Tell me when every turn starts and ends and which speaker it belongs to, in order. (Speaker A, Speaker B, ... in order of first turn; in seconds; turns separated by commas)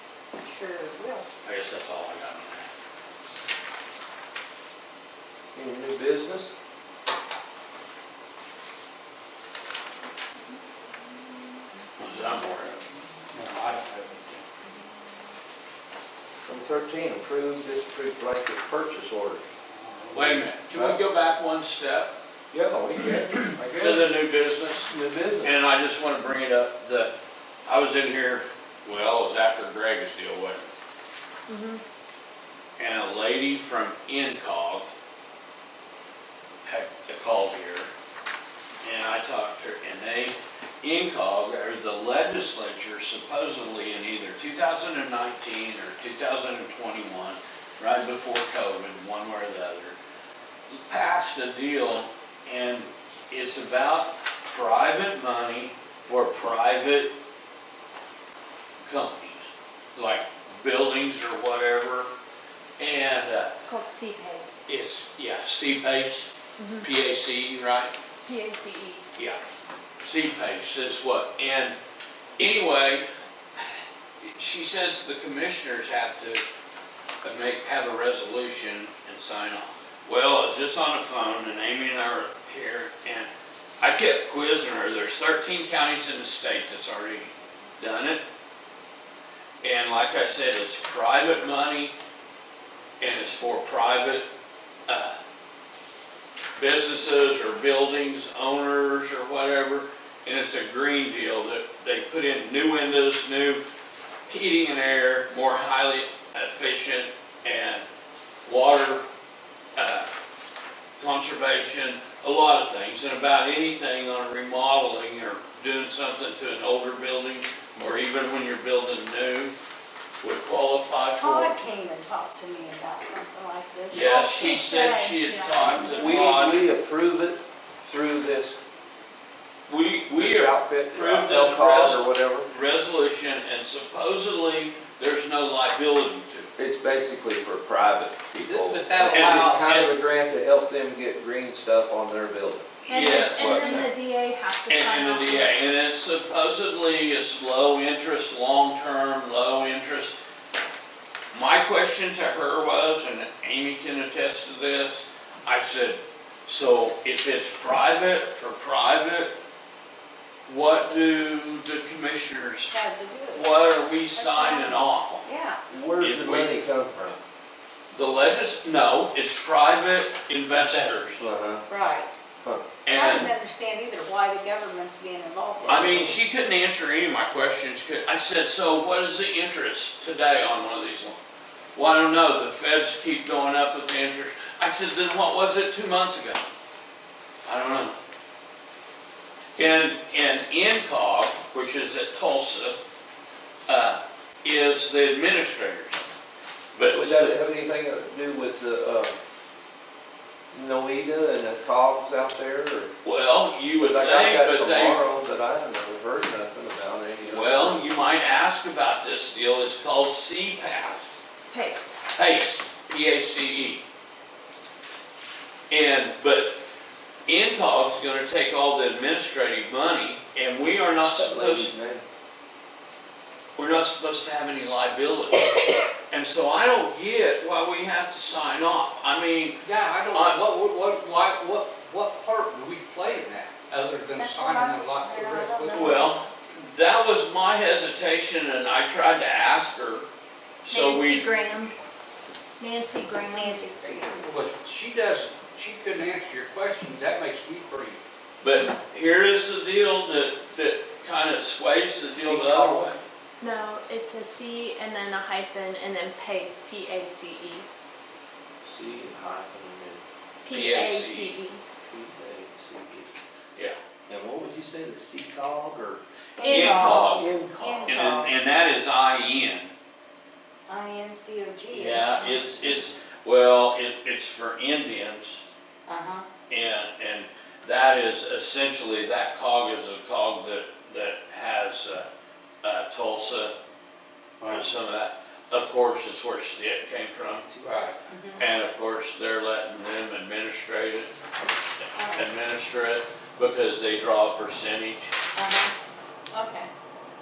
Speaker A: 0.3-1.3, Speaker B: 1.4-2.7, Speaker C: 5.5-6.5, Speaker B: 12.0-12.8, Speaker D: 13.3-14.4, Speaker C: 16.4-19.4, Speaker D: 19.8-20.5, Speaker B: 20.1-22.1, Speaker C: 20.7-21.0, Speaker C: 22.5-24.2, Speaker B: 23.7-24.9, Speaker C: 24.9-25.5, Speaker B: 25.4-27.1, Speaker B: 27.6-30.7, Speaker E: 31.5-31.8, Speaker B: 32.8-34.9, Speaker B: 36.6-37.9, Speaker B: 38.8-50.0, Speaker B: 50.7-57.1, Speaker B: 58.8-62.1, Speaker B: 62.8-63.5, Speaker E: 63.6-64.6, Speaker B: 64.7-66.3, Speaker E: 66.6-66.9, Speaker B: 66.8-67.9, Speaker E: 68.2-69.0, Speaker B: 70.0-71.7, Speaker B: 72.4-73.0, Speaker B: 74.2-76.4, Speaker B: 77.2-83.3, Speaker B: 83.8-88.2, Speaker B: 89.6-91.9, Speaker B: 93.0-94.2, Speaker B: 94.9-95.2, Speaker B: 96.6-103.6, Speaker B: 104.3-107.8, Speaker B: 108.4-109.0, Speaker B: 109.8-110.1, Speaker B: 111.0-119.5, Speaker B: 120.2-121.6, Speaker A: 121.1-124.6, Speaker B: 123.9-126.6, Speaker E: 124.2-126.1, Speaker C: 125.6-128.6, Speaker B: 129.7-136.5, Speaker C: 130.2-132.5, Speaker C: 136.6-143.9, Speaker D: 138.4-139.9, Speaker B: 139.1-139.9, Speaker B: 142.8-143.9, Speaker E: 142.9-145.6, Speaker B: 144.7-150.1, Speaker B: 151.3-159.3, Speaker B: 160.4-162.7, Speaker A: 162.7-163.6, Speaker B: 163.3-165.3, Speaker A: 164.1-165.6, Speaker C: 165.7-167.2, Speaker B: 166.0-166.5, Speaker B: 167.9-171.2, Speaker D: 170.5-171.0, Speaker C: 171.2-171.6, Speaker A: 171.7-172.1, Speaker B: 172.8-173.3, Speaker A: 172.9-176.1, Speaker B: 175.7-181.2, Speaker C: 175.7-176.1, Speaker B: 181.7-186.5, Speaker B: 187.4-187.9, Speaker B: 189.6-192.8, Speaker B: 193.7-196.0, Speaker B: 196.7-197.4, Speaker C: 196.9-199.2, Speaker C: 200.5-202.9, Speaker B: 203.0-205.0, Speaker C: 203.8-207.8, Speaker B: 207.2-211.1, Speaker E: 211.5-212.0, Speaker B: 212.1-213.8, Speaker B: 215.7-216.5, Speaker B: 217.3-221.7, Speaker C: 221.1-222.0, Speaker B: 223.6-225.5, Speaker B: 226.1-230.4, Speaker D: 229.6-236.0, Speaker A: 234.2-236.3, Speaker B: 235.7-240.0, Speaker B: 240.6-241.3, Speaker E: 240.7-241.7, Speaker E: 242.6-243.9, Speaker A: 243.3-244.3, Speaker D: 244.2-248.0, Speaker B: 248.4-253.0, Speaker C: 252.1-253.0, Speaker E: 253.4-257.6, Speaker C: 258.6-260.0, Speaker E: 260.4-261.6, Speaker B: 260.5-261.4, Speaker C: 261.9-263.1, Speaker C: 264.1-266.0, Speaker A: 266.4-268.3, Speaker E: 266.4-267.2, Speaker B: 266.4-267.3, Speaker C: 266.8-268.2, Speaker B: 267.8-269.7, Speaker A: 270.7-272.8, Speaker B: 271.7-275.4, Speaker A: 275.9-276.2, Speaker B: 276.5-282.1, Speaker B: 282.6-283.5, Speaker D: 284.4-284.6, Speaker B: 284.4-287.5, Speaker D: 287.6-287.9, Speaker A: 288.1-288.4, Speaker B: 288.4-291.1, Speaker A: 291.9-292.3, Speaker B: 292.1-295.1, Speaker A: 295.4-295.7, Speaker A: 296.3-296.7